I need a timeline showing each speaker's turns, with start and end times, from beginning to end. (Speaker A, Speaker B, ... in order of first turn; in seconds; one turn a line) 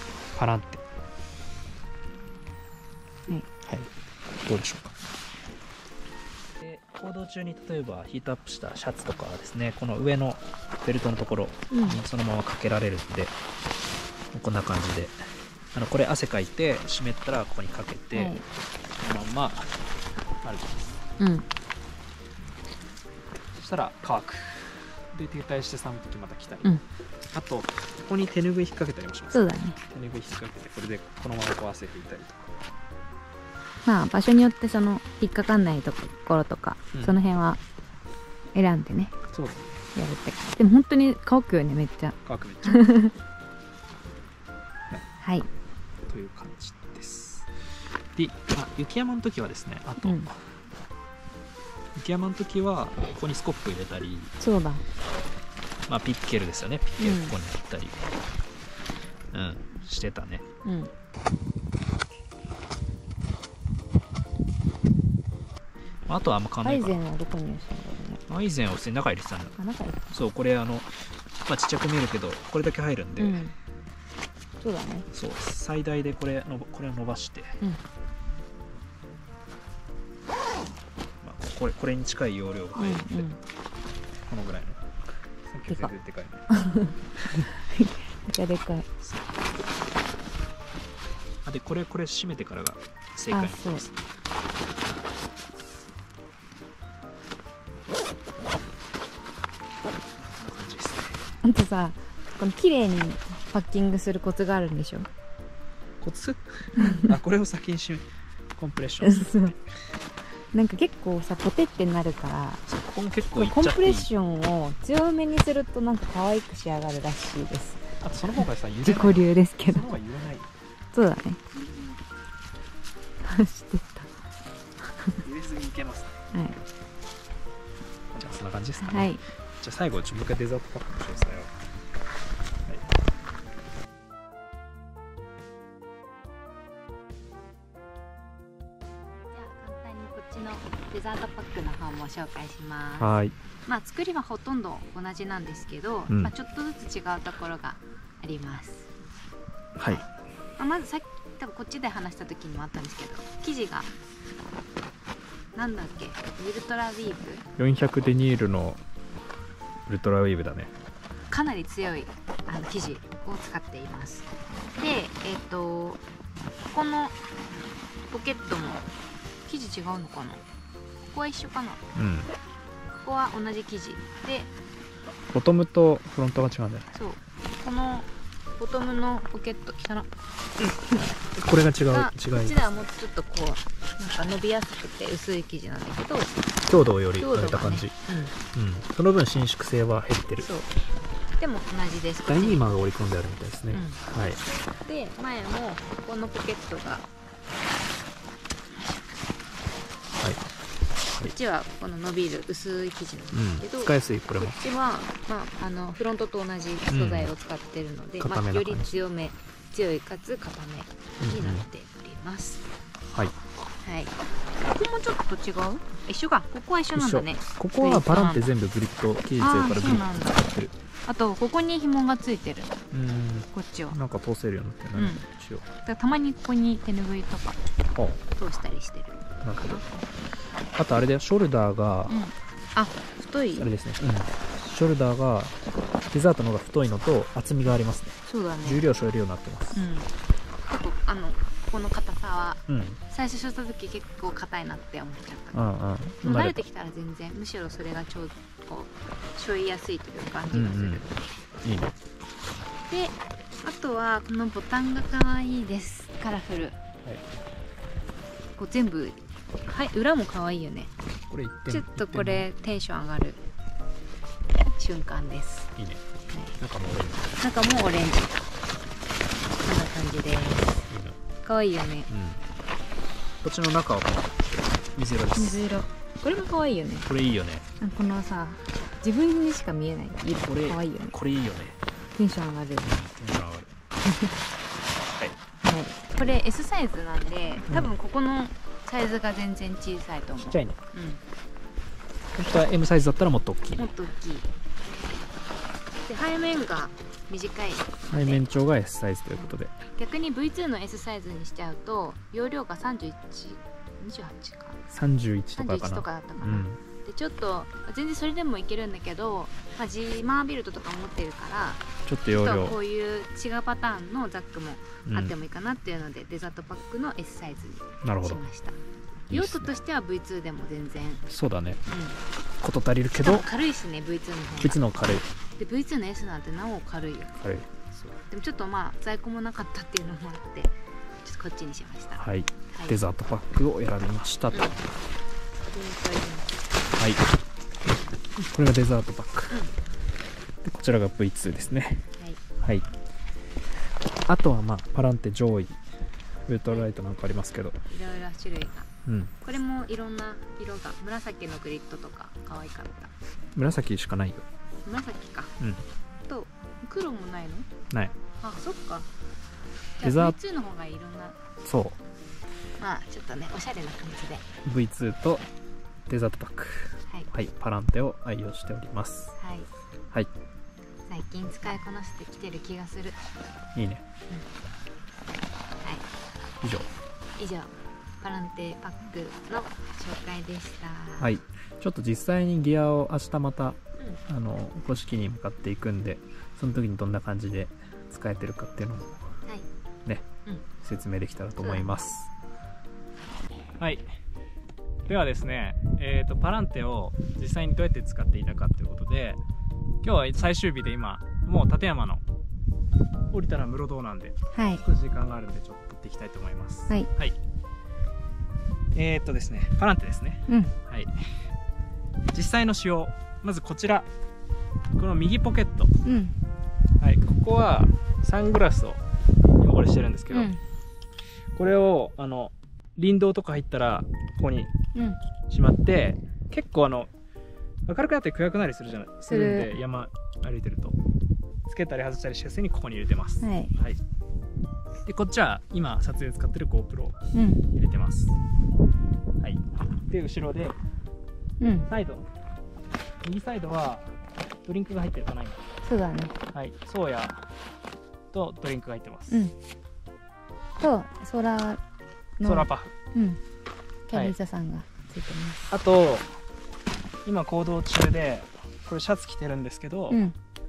Speaker A: 0.3-0.8
Speaker A: 3.6-3.9
Speaker A: 4.4-5.0
Speaker A: 6.6-13.3
Speaker B: 11.7-12.0
Speaker A: 14.3-15.2
Speaker A: 15.7-18.4
Speaker B: 18.1-18.4
Speaker A: 19.0-19.8
Speaker A: 20.4-21.0
Speaker B: 21.2-21.4
Speaker A: 23.5-26.8
Speaker A: 27.3-32.5
Speaker B: 29.3-29.8
Speaker B: 33.9-37.6
Speaker B: 38.5-39.1
Speaker A: 39.3-39.7
Speaker B: 39.9-43.1
Speaker A: 42.2-42.8
Speaker B: 45.2-45.5
Speaker A: 46.1-47.5
Speaker A: 48.1-50.5
Speaker B: 50.0-50.3
Speaker A: 52.0-54.3
Speaker B: 54.4-54.8
Speaker A: 55.9-58.1
Speaker B: 57.0-57.3
Speaker A: 59.3-60.4
Speaker B: 60.6-60.9
Speaker A: 66.1-67.0
Speaker B: 66.6-68.2
Speaker A: 68.3-69.5
Speaker B: 69.6-70.1
Speaker A: 70.1-73.4
Speaker B: 73.2-73.5
Speaker B: 74.6-75.1
Speaker A: 75.1-77.6
Speaker A: 81.2-83.3
Speaker B: 82.8-83.4
Speaker A: 84.3-84.9
Speaker A: 85.4-86.5
Speaker B: 86.5-88.9
Speaker A: 89.0-89.5
Speaker A: 91.4-94.0
Speaker B: 93.3-93.8
Speaker A: 100.1-101.2
Speaker B: 101.4-105.1
Speaker A: 106.0-109.6
Speaker B: 106.8-107.1
Speaker B: 109.0-109.5
Speaker B: 110.5-112.6
Speaker A: 112.7-114.1
Speaker B: 113.3-117.8
Speaker A: 118.0-120.5
Speaker B: 118.8-119.9
Speaker B: 120.9-121.6
Speaker B: 123.2-124.1
Speaker B: 125.0-125.2
Speaker A: 125.2-126.2
Speaker B: 126.3-126.6
Speaker A: 128.1-131.5
Speaker B: 128.8-129.2
Speaker B: 139.3-143.1
Speaker A: 143.0-143.3
Speaker B: 143.7-148.9
Speaker A: 149.8-150.0
Speaker B: 149.9-153.9
Speaker B: 155.5-157.4
Speaker A: 157.6-158.8
Speaker A: 159.8-160.7
Speaker B: 161.3-164.3
Speaker B: 164.8-166.0
Speaker B: 166.7-167.2
Speaker B: 168.1-168.8
Speaker B: 169.4-170.4
Speaker B: 171.1-171.8
Speaker A: 171.9-172.3
Speaker B: 173.0-174.5
Speaker A: 175.3-176.9
Speaker B: 176.9-180.1
Speaker A: 180.6-182.6
Speaker B: 181.9-186.3
Speaker A: 186.7-188.0
Speaker B: 187.2-188.3
Speaker A: 188.5-190.5
Speaker B: 190.4-190.7
Speaker B: 191.4-192.8
Speaker A: 192.2-194.4
Speaker B: 193.7-194.0
Speaker B: 194.8-197.1
Speaker B: 201.2-212.7
Speaker A: 203.3-204.6
Speaker A: 206.9-207.3
Speaker A: 208.2-208.9
Speaker A: 211.2-211.7
Speaker B: 213.8-218.4
Speaker A: 216.9-220.7
Speaker B: 219.4-220.4
Speaker B: 221.1-222.7
Speaker A: 222.9-225.6
Speaker B: 223.5-224.0
Speaker B: 224.9-225.2
Speaker B: 225.8-227.6
Speaker B: 228.3-230.0
Speaker A: 229.4-229.8
Speaker A: 230.7-232.2
Speaker B: 232.1-233.7
Speaker A: 233.5-235.6
Speaker A: 236.1-239.9
Speaker B: 238.3-239.0
Speaker B: 239.7-240.1
Speaker B: 240.7-245.7
Speaker A: 242.7-243.0
Speaker A: 245.5-246.6
Speaker B: 246.2-251.1
Speaker A: 250.5-251.1
Speaker A: 251.6-251.9
Speaker B: 252.9-256.8
Speaker B: 258.6-260.9
Speaker A: 261.3-262.5
Speaker B: 261.7-263.4
Speaker B: 264.8-265.7
Speaker A: 265.8-266.0
Speaker A: 266.6-267.4
Speaker B: 267.4-268.4
Speaker B: 269.6-270.9
Speaker A: 270.9-271.2
Speaker B: 271.4-272.1
Speaker A: 272.1-272.4
Speaker A: 273.4-275.6
Speaker B: 275.4-277.1
Speaker A: 277.1-277.6
Speaker B: 277.8-281.2
Speaker A: 280.3-281.8
Speaker B: 282.1-283.0
Speaker A: 282.8-283.7
Speaker B: 284.0-284.3
Speaker B: 285.6-291.2
Speaker A: 287.7-288.0
Speaker A: 290.4-290.8
Speaker A: 292.3-293.8
Speaker B: 293.8-294.5
Speaker B: 296.0-298.5
Speaker A: 298.1-299.7
Speaker B: 299.9-304.8
Speaker A: 304.9-306.8
Speaker B: 305.6-318.8
Speaker A: 312.1-312.8
Speaker A: 315.0-315.4
Speaker A: 318.0-318.4
Speaker A: 319.3-319.8
Speaker B: 319.3-321.2
Speaker A: 321.3-321.8
Speaker B: 321.9-322.2
Speaker A: 322.6-323.5
Speaker B: 323.2-324.9
Speaker A: 324.6-325.3
Speaker B: 325.6-327.4
Speaker A: 327.4-327.7
Speaker B: 328.1-333.0
Speaker A: 332.2-334.7
Speaker B: 334.5-334.8
Speaker B: 335.7-336.6
Speaker A: 336.9-337.2
Speaker A: 338.4-339.5
Speaker A: 340.6-342.0
Speaker A: 344.2-345.8
Speaker A: 346.4-347.8
Speaker B: 347.9-348.9
Speaker A: 349.0-349.4
Speaker B: 349.4-353.1
Speaker A: 353.6-354.4
Speaker B: 354.8-355.5
Speaker B: 356.3-357.7
Speaker B: 358.4-359.1
Speaker B: 360.0-361.4
Speaker A: 360.0-360.4
Speaker A: 361.6-362.0
Speaker B: 362.8-364.4
Speaker A: 364.6-365.4
Speaker A: 366.1-369.4
Speaker B: 369.4-369.7
Speaker B: 371.1-373.2
Speaker A: 373.7-374.0
Speaker A: 376.6-376.9
Speaker B: 377.4-381.3
Speaker A: 381.2-389.2
Speaker A: 390.8-392.3
Speaker B: 391.6-391.9
Speaker A: 393.8-394.1
Speaker A: 395.1-399.4
Speaker A: 400.0-402.2
Speaker A: 403.3-407.4
Speaker B: 404.5-404.8
Speaker A: 408.9-411.3
Speaker B: 410.5-410.7
Speaker A: 412.3-414.1
Speaker A: 414.9-415.9
Speaker B: 416.0-416.3
Speaker A: 417.0-419.0
Speaker A: 419.6-420.5
Speaker B: 420.3-420.6
Speaker A: 421.5-424.7
Speaker A: 425.5-427.1
Speaker A: 427.9-431.0
Speaker B: 429.3-429.7
Speaker A: 431.7-434.0
Speaker B: 433.4-433.7
Speaker A: 435.0-437.2
Speaker B: 437.3-437.6
Speaker A: 437.7-438.4
Speaker A: 439.4-440.8
Speaker B: 441.6-441.9
Speaker A: 441.9-442.2
Speaker A: 443.2-444.1
Speaker A: 444.6-445.6
Speaker B: 445.8-446.4
Speaker A: 446.5-447.5
Speaker A: 448.3-449.4
Speaker B: 449.3-449.5
Speaker B: 450.8-451.8
Speaker B: 452.4-453.4
Speaker A: 452.4-452.9
Speaker B: 454.1-455.7
Speaker A: 455.7-456.3
Speaker A: 457.2-460.2
Speaker B: 460.1-460.3